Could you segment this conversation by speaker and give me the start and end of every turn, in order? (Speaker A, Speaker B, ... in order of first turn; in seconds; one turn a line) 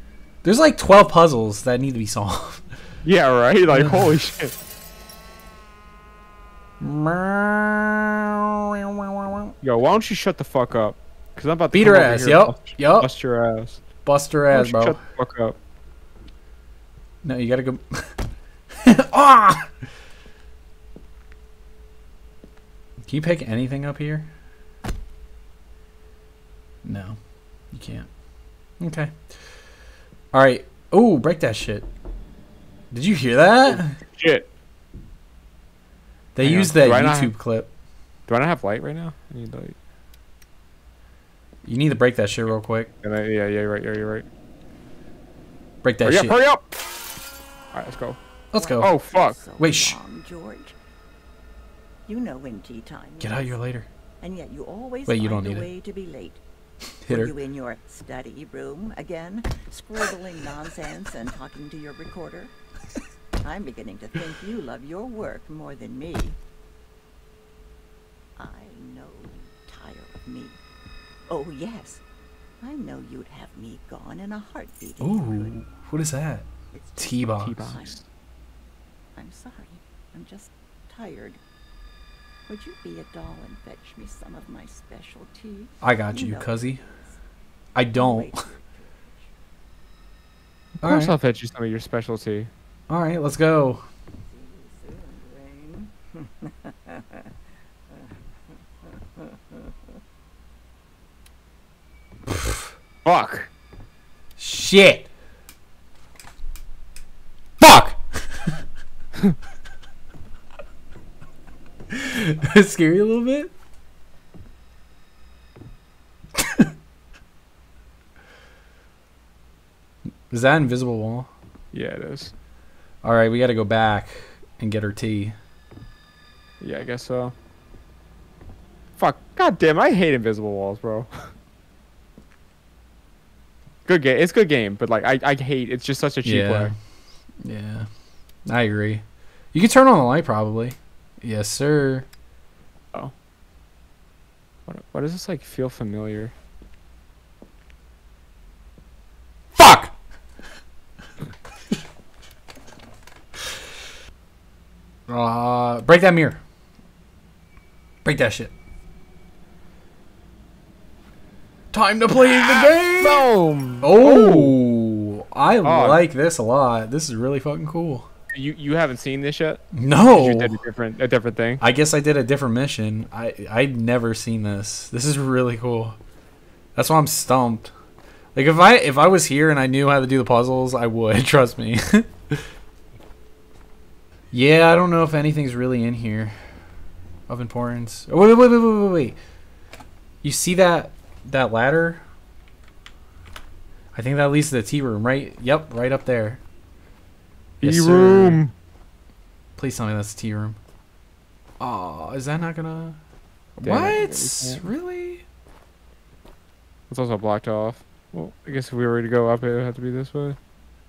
Speaker A: 0.4-2.6
Speaker B: 3.0-4.5
Speaker A: 3.7-4.0
Speaker A: 6.8-9.5
Speaker B: 9.6-13.8
Speaker A: 11.7-13.1
Speaker A: 14.1-15.0
Speaker B: 14.5-15.6
Speaker A: 17.2-18.1
Speaker A: 18.8-19.7
Speaker A: 23.1-24.3
Speaker A: 26.8-27.2
Speaker A: 27.7-28.1
Speaker A: 28.8-29.2
Speaker A: 30.3-31.9
Speaker A: 32.9-34.0
Speaker B: 33.7-34.5
Speaker A: 36.4-37.7
Speaker B: 36.4-37.3
Speaker B: 38.3-39.8
Speaker A: 41.6-42.9
Speaker B: 43.0-44.3
Speaker A: 45.8-46.4
Speaker B: 46.0-46.7
Speaker B: 47.7-48.2
Speaker A: 48.5-48.9
Speaker C: 48.5-50.8
Speaker B: 48.8-49.4
Speaker A: 49.6-50.0
Speaker C: 52.1-53.6
Speaker A: 53.2-53.9
Speaker C: 54.2-56.4
Speaker A: 55.1-55.7
Speaker A: 57.0-57.3
Speaker C: 57.1-62.5
Speaker C: 63.4-66.4
Speaker C: 68.4-70.6
Speaker C: 71.3-72.0
Speaker C: 72.6-75.5
Speaker A: 75.0-77.6
Speaker C: 76.7-78.0
Speaker B: 77.4-78.0
Speaker C: 79.2-81.4
Speaker C: 82.5-87.2
Speaker A: 85.8-86.8
Speaker A: 87.8-88.3
Speaker C: 88.0-89.3
Speaker A: 90.8-91.1
Speaker B: 90.8-92.5
Speaker A: 92.9-93.8
Speaker C: 94.3-97.3
Speaker C: 98.9-99.7
Speaker A: 102.3-102.7
Speaker B: 103.0-103.5
Speaker A: 104.4-105.1
Speaker A: 107.6-108.5
Speaker A: 111.9-113.5
Speaker A: 116.4-116.7
Speaker A: 120.3-121.3
Speaker B: 121.7-122.3
Speaker A: 123.0-125.3
Speaker B: 126.6-127.3
Speaker B: 129.0-131.3
Speaker B: 133.9-136.7
Speaker A: 136.2-136.8
Speaker A: 137.4-137.9
Speaker A: 138.5-142.1
Speaker B: 144.7-146.3
Speaker A: 149.6-149.9
Speaker A: 155.1-156.4
Speaker A: 158.1-158.5
Speaker A: 161.7-163.3
Speaker B: 162.2-164.6
Speaker A: 163.8-168.1
Speaker B: 165.6-166.0
Speaker B: 168.3-171.6
Speaker A: 169.7-170.6
Speaker A: 171.6-176.0
Speaker A: 176.8-177.7
Speaker A: 178.3-182.4
Speaker A: 184.3-186.4
Speaker A: 187.3-189.2
Speaker A: 190.2-192.0
Speaker A: 193.9-196.4
Speaker B: 197.6-198.5
Speaker A: 197.6-198.4
Speaker A: 199.6-200.6
Speaker A: 201.6-203.0
Speaker A: 203.6-205.2
Speaker B: 203.6-204.7
Speaker B: 206.9-210.4